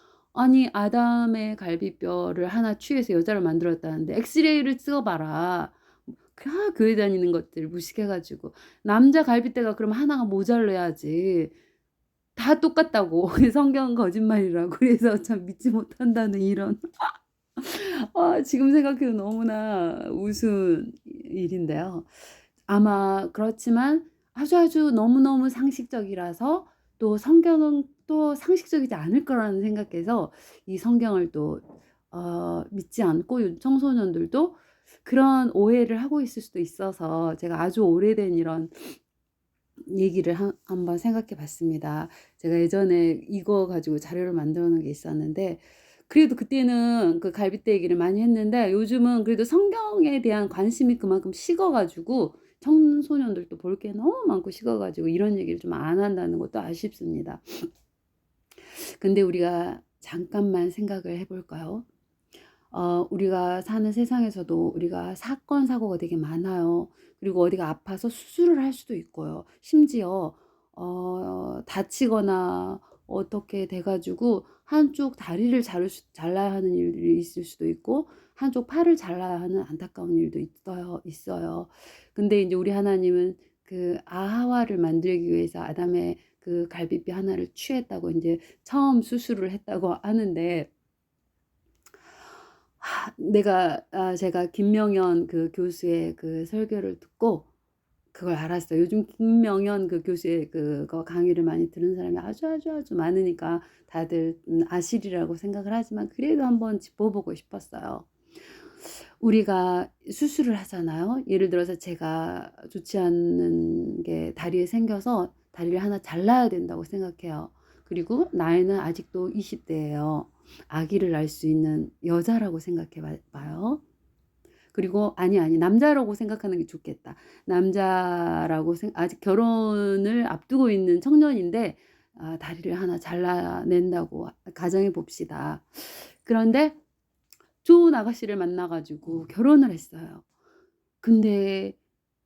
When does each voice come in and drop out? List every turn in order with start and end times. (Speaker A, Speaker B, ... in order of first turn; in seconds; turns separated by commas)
Speaker A: 0.3-11.5, Speaker A: 12.3-22.1, Speaker A: 22.7-39.0, Speaker A: 39.9-57.7, Speaker A: 59.0-61.9, Speaker A: 62.7-90.7, Speaker A: 92.8-97.5, Speaker A: 98.1-108.1, Speaker A: 109.2-123.8, Speaker A: 124.7-136.8, Speaker A: 137.6-140.2, Speaker A: 141.0-141.8